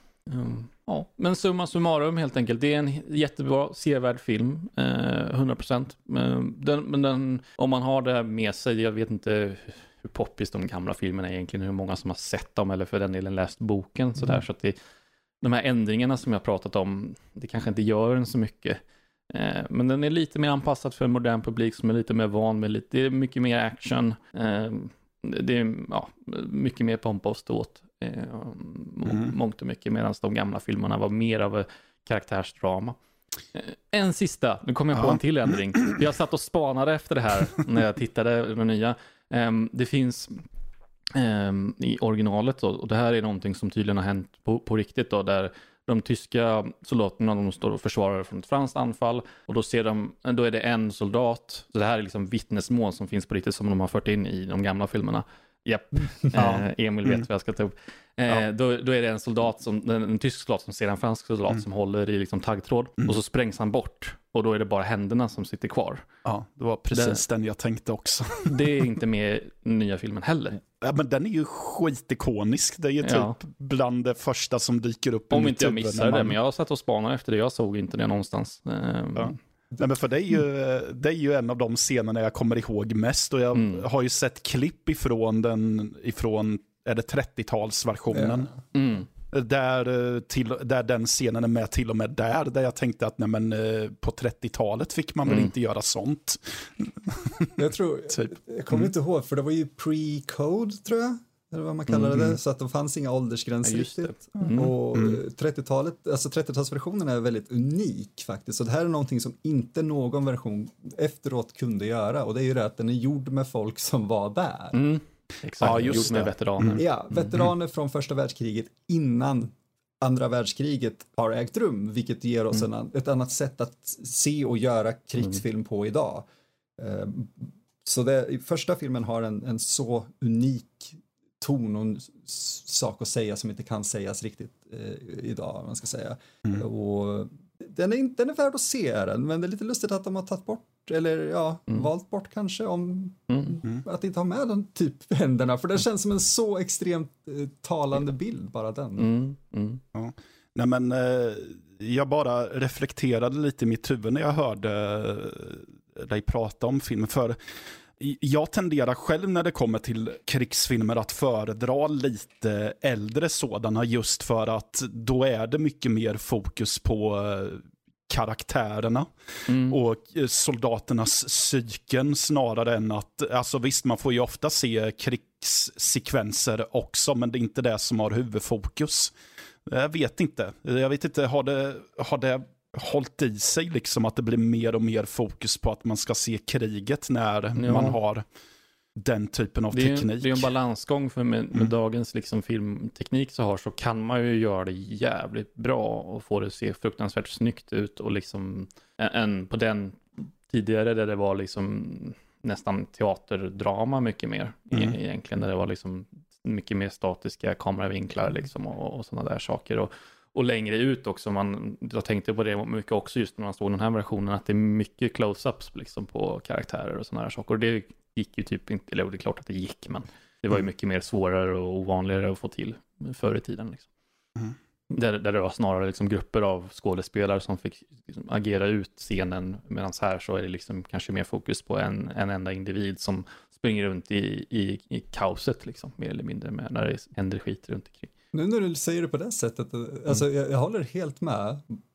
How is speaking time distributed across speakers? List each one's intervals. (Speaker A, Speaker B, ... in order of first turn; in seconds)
Speaker A: 0.3-14.8, 15.4-18.8, 19.3-33.0, 33.5-40.4, 41.1-66.0, 66.9-67.2, 68.5-70.6, 73.0-73.3, 75.3-79.3, 83.5-83.9, 88.7-89.1, 95.2-95.5, 103.6-104.7, 114.7-116.8, 143.3-143.6, 149.0-149.8, 169.5-169.8, 187.6-188.0, 189.7-223.9, 224.9-238.1
Speaker B: 34.9-35.2, 56.4-57.2, 66.2-68.8, 70.8-76.4, 79.2-88.5, 89.3-97.6, 98.2-98.9, 104.4-105.2, 115.6-116.8, 149.9-157.4, 158.0-179.1, 179.7-188.2, 188.9-190.5
Speaker C: 88.1-88.5, 97.5-114.8, 116.8-126.2, 126.8-149.1, 238.3-241.8